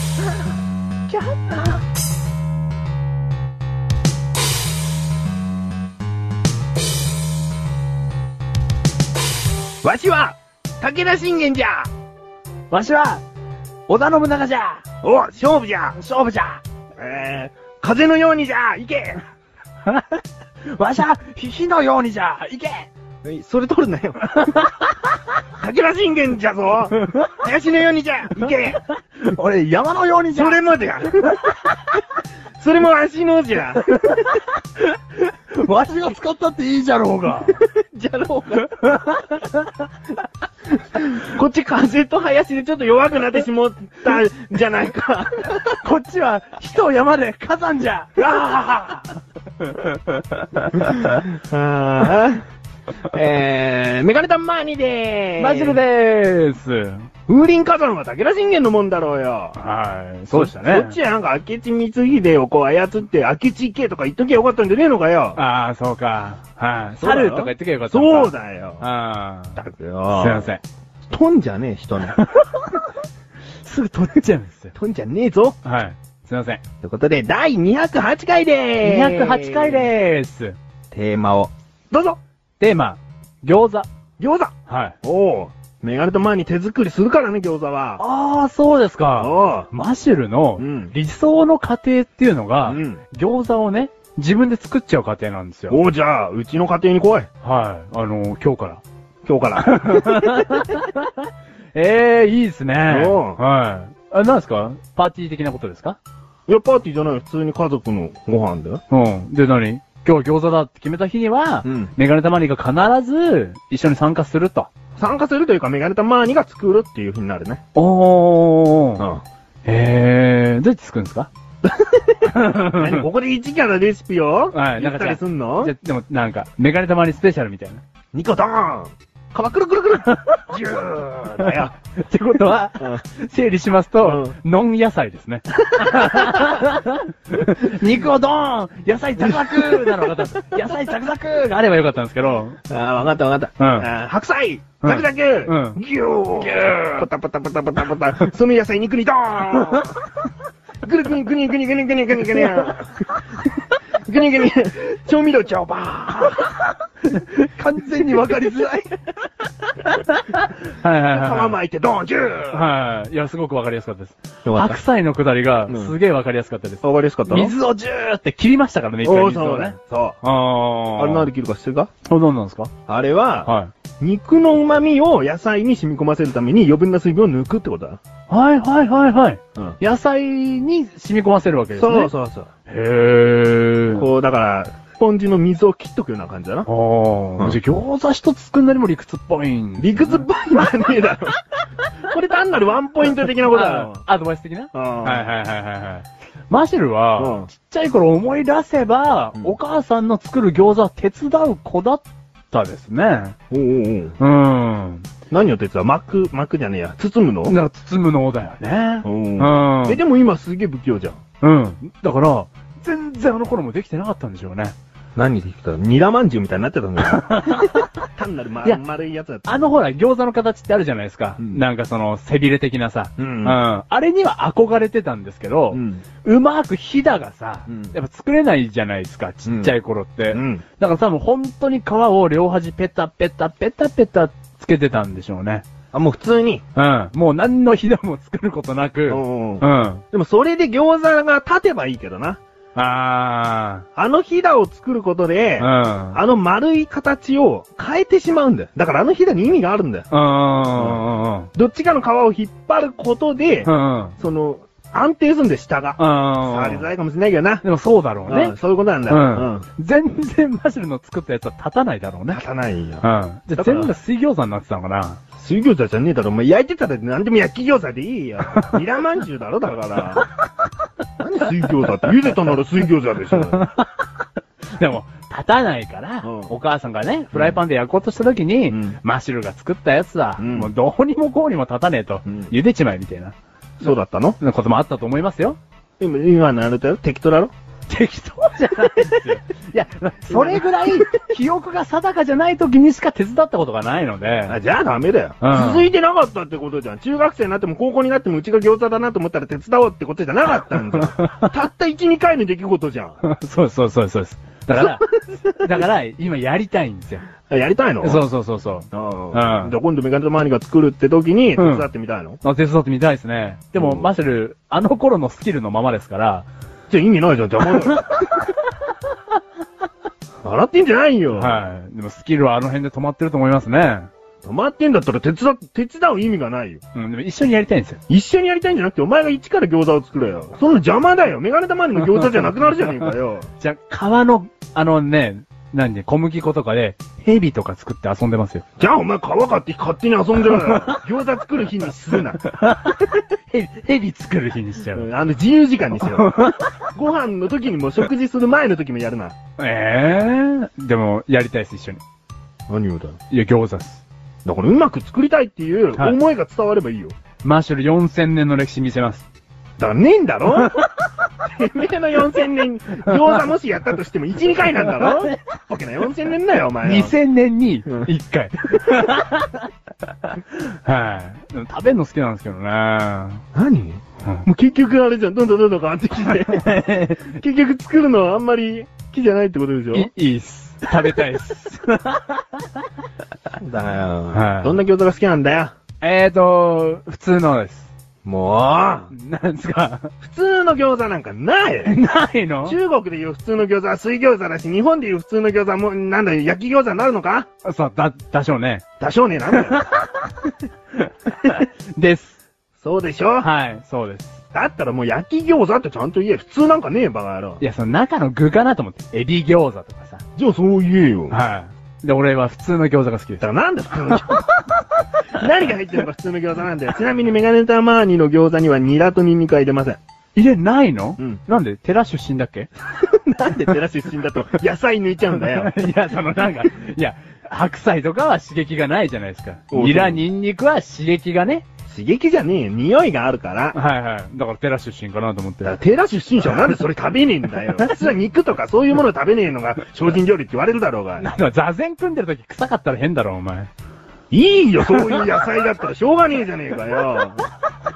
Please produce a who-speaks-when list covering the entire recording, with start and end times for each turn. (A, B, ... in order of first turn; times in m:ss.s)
0:01.1-0:01.8 A
0:09.8-0:11.9 B
0:12.7-0:13.2 A
0:13.9-0:14.8 A
0:15.0-0:16.0 B
0:16.0-0:16.6 A
0:17.0-0:19.2 B
0:19.8-0:22.9 A
0:23.2-0:24.4 B
0:24.4-0:24.8 A
0:25.6-0:28.8 B
0:29.2-0:30.6 A
0:30.3-0:31.6 B
0:32.6-0:34.2 B
0:34.0-0:34.6 A
0:35.2-0:37.6 A
0:37.5-0:39.0 B
0:38.8-0:39.6 A
0:41.0-0:45.8 B
0:45.7-0:49.0 A
0:48.2-0:49.0 B
0:49.6-0:51.2 A
0:50.8-0:52.4 B
0:53.0-0:55.8 B
0:55.4-0:57.1 A
0:57.3-0:59.6 B
0:59.5-1:00.9 A
1:00.3-1:05.4 B
1:05.3-1:09.6 A
1:07.0-1:08.8 B
1:09.6-1:10.5 B
1:10.1-1:10.6 A
1:11.1-1:12.2 B
1:12.0-1:12.9 A
1:13.6-1:14.7 A
1:14.7-1:15.6 B
1:15.6-1:16.6 A
1:16.8-1:19.9 B
1:18.8-1:20.6 A
1:20.9-1:22.2 B
1:22.6-1:23.9 A
1:24.2-1:28.0 B
1:24.7-1:25.0 A
1:28.0-1:35.8 A
1:29.2-1:29.7 B
1:30.6-1:30.9 B
1:32.6-1:33.0 B
1:35.7-1:37.3 B
1:37.4-1:38.8 A
1:39.2-1:40.6 B
1:39.6-1:46.0 A
1:42.9-1:43.4 B
1:46.5-1:48.8 B
1:48.9-1:54.7 A
1:51.6-1:51.9 B
1:55.0-1:57.6 B
1:57.7-1:59.1 A
1:59.0-1:59.2 B
1:59.6-2:01.3 A
2:01.6-2:05.7 B
2:02.3-2:03.0 A
2:04.5-2:07.8 A
2:08.1-2:11.7 B
2:10.1-2:10.4 A
2:11.4-2:22.6 A
2:14.0-2:14.4 B
2:15.9-2:16.4 B
2:19.2-2:20.3 B
2:22.7-2:30.0 B
2:23.6-2:23.9 A
2:24.8-2:25.8 A
2:26.4-2:27.0 A
2:30.8-2:33.2 B
2:34.0-2:36.7 B
2:37.1-2:38.9 A
2:37.8-2:38.8 B
2:39.7-2:41.6 A
2:41.1-2:42.6 B
2:42.5-2:51.3 A
2:44.4-2:44.8 B
2:45.7-2:45.9 B
2:46.8-2:47.6 B
2:49.0-2:50.2 B
2:50.9-2:51.9 B
2:52.0-2:52.7 A
2:52.9-2:58.0 B
2:53.4-2:53.7 A
2:58.3-3:02.1 A
3:01.7-3:02.5 B
3:02.7-3:04.1 A
3:03.9-3:06.7 B
3:06.6-3:10.2 A
3:09.8-3:11.4 B
3:12.1-3:14.0 B
3:13.5-3:23.4 A
3:14.7-3:15.3 B
3:17.2-3:17.5 B
3:23.5-3:24.2 B
3:24.2-3:25.1 A
3:25.3-3:27.6 B
3:27.5-3:30.0 A
3:29.0-3:31.2 B
3:31.4-3:34.7 A
3:35.2-3:37.6 B
3:37.1-3:37.9 A
3:38.1-3:39.8 B
3:39.4-3:55.6 A
3:43.2-3:43.6 B
3:45.7-3:46.0 B
3:47.7-3:47.9 B
3:49.4-3:49.7 B
3:50.3-3:50.6 B
3:55.9-3:56.6 B
3:56.7-4:00.0 A
3:59.1-4:02.4 B
4:02.7-4:03.8 A
4:04.0-4:10.1 B
4:05.6-4:06.2 A
4:10.1-4:11.5 A
4:10.7-4:17.6 B
4:13.6-4:14.2 A
4:16.0-4:16.9 A
4:17.6-4:18.5 A
4:18.3-4:19.6 B
4:19.1-4:22.4 A
4:22.3-4:23.9 B
4:23.0-4:25.2 A
4:25.4-4:30.2 B
4:31.2-4:33.7 B
4:33.5-4:34.1 A
4:34.8-4:43.3 A
4:36.2-4:36.5 B
4:37.3-4:37.6 B
4:38.7-4:39.0 B
4:40.4-4:40.7 B
4:42.2-4:42.5 B
4:43.8-4:44.4 B
4:44.4-4:45.6 A
4:46.0-4:47.5 B
4:47.9-4:54.6 A
4:50.3-4:50.7 B
4:54.5-5:03.2 B
4:55.4-4:55.9 A
5:01.2-5:01.4 A
5:03.2-5:07.3 A
5:04.8-5:05.0 B
5:07.5-5:08.2 B
5:08.0-5:09.8 A
5:08.9-5:12.4 B
5:11.6-5:11.8 A
5:12.4-5:16.5 A
5:13.8-5:14.1 B
5:16.9-5:18.3 B
5:20.4-5:21.6 B
5:21.3-5:24.1 A
5:24.4-5:26.8 B
5:26.9-5:28.0 A
5:28.1-5:33.5 B
5:33.6-5:38.6 A
5:38.8-5:42.4 B
5:40.6-5:41.0 A
5:42.5-5:45.1 A
5:44.9-5:49.4 B
5:46.1-5:46.7 A
5:49.6-5:52.0 A
5:52.7-5:53.2 B
5:53.3-5:54.0 A
5:54.4-5:57.1 B
5:57.4-5:59.2 A
5:59.8-6:00.8 B
6:00.6-6:01.2 A
6:01.4-6:07.1 B
6:04.8-6:05.3 A
6:06.8-6:09.7 A
6:10.2-6:13.4 A
6:13.5-6:20.1 B
6:16.3-6:17.3 A
6:19.9-6:22.8 A
6:23.6-6:25.7 B
6:24.3-6:24.8 A
6:26.0-6:27.9 A
6:28.2-6:29.1 B
6:29.1-6:30.1 A
6:30.2-6:31.9 B
6:31.8-6:32.8 A
6:32.6-6:37.5 B
6:37.6-6:38.8 A
6:39.0-6:39.8 B
6:39.5-6:42.4 A
6:42.8-6:43.5 B
6:43.4-6:44.4 A
6:44.5-6:47.6 B
6:47.6-6:50.2 A
6:50.4-6:51.4 B
6:51.3-6:53.4 A
6:53.4-6:54.4 B
6:54.0-6:54.4 A
6:55.4-7:00.0 B
7:00.3-7:02.7 A
7:03.1-7:05.7 B
7:05.4-7:11.6 A
7:09.7-7:10.2 B
7:11.9-7:13.8 B
7:13.7-7:15.8 A
7:15.6-7:21.3 B
7:21.2-7:23.7 A
7:24.3-7:27.5 B
7:24.8-7:25.3 A